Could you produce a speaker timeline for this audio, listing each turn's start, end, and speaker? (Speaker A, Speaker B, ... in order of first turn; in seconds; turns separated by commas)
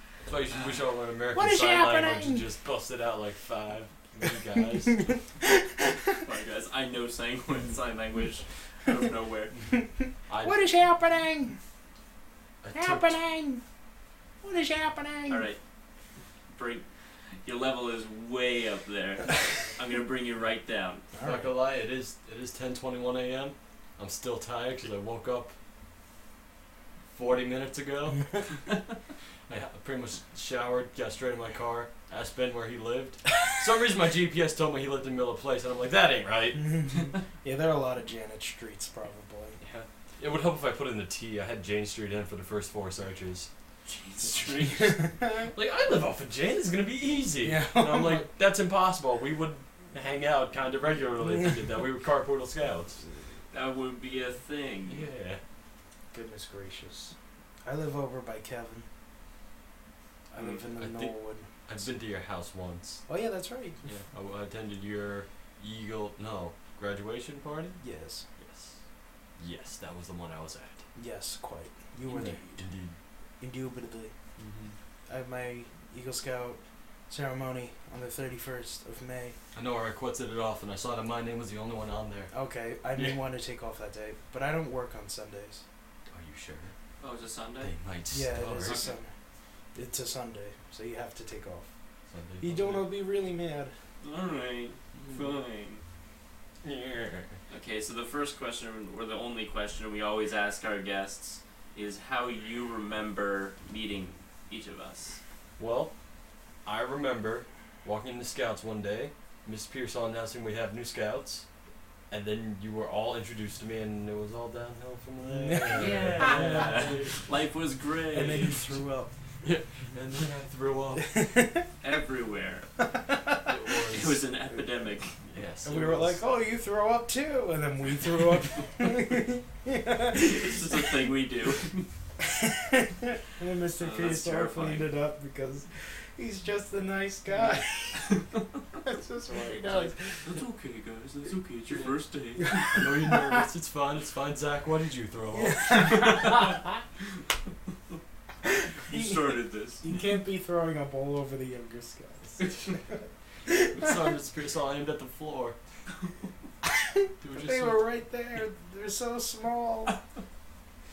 Speaker A: 0.2-5.2, Speaker B: 1.3-2.4, Speaker B: 4.5-6.2, Speaker C: 6.2-9.5, Speaker B: 9.7-11.6, Speaker A: 10.3-10.7, Speaker A: 12.6-13.2, Speaker B: 12.7-13.6, Speaker B: 14.4-15.5, Speaker C: 15.3-15.6, Speaker C: 16.5-16.8, Speaker C: 17.4-21.1, Speaker B: 21.1-21.5, Speaker A: 21.2-25.5, Speaker A: 27.1-28.6, Speaker A: 29.5-36.9, Speaker B: 36.6-39.6, Speaker A: 39.6-43.5, Speaker C: 43.8-45.0, Speaker B: 44.8-45.4, Speaker A: 45.4-53.0, Speaker B: 47.4-48.3, Speaker C: 53.5-55.1, Speaker A: 54.9-55.4, Speaker B: 56.1-57.1, Speaker B: 57.6-58.9, Speaker B: 60.3-61.9, Speaker A: 60.4-63.0, Speaker B: 63.1-63.9, Speaker A: 63.8-67.8, Speaker B: 67.8-68.2, Speaker A: 68.4-68.8, Speaker A: 69.4-70.8, Speaker B: 71.0-72.7, Speaker A: 72.1-73.0, Speaker B: 73.4-74.1, Speaker A: 74.4-74.8, Speaker B: 75.1-79.3, Speaker A: 79.5-82.3, Speaker B: 82.3-85.6, Speaker A: 82.9-83.2, Speaker A: 86.1-86.7, Speaker C: 87.0-87.7, Speaker A: 87.6-88.9, Speaker B: 88.1-89.1, Speaker C: 88.6-88.9, Speaker B: 89.7-91.7, Speaker A: 92.1-92.9, Speaker B: 92.4-93.7, Speaker C: 94.0-95.8, Speaker A: 94.9-95.3, Speaker A: 96.6-97.4, Speaker C: 97.5-105.2, Speaker A: 105.6-105.9, Speaker A: 106.6-111.5, Speaker A: 112.1-117.2, Speaker B: 115.2-117.1, Speaker C: 115.7-118.6, Speaker B: 118.1-119.1, Speaker A: 119.4-121.3, Speaker B: 121.0-121.7, Speaker C: 121.8-122.7, Speaker B: 122.8-123.4, Speaker A: 123.5-124.2, Speaker C: 123.9-125.2, Speaker A: 125.2-126.2, Speaker B: 125.6-130.9, Speaker C: 130.2-131.9, Speaker B: 132.2-138.0, Speaker C: 133.8-134.9, Speaker A: 137.3-137.6, Speaker C: 137.9-138.4, Speaker B: 138.8-140.3, Speaker C: 139.4-142.8, Speaker B: 142.4-143.4, Speaker A: 142.5-146.4, Speaker B: 145.3-146.7, Speaker B: 148.4-154.1, Speaker C: 148.7-149.8, Speaker A: 152.3-152.8, Speaker A: 153.7-155.6, Speaker B: 156.6-160.0, Speaker A: 157.2-157.8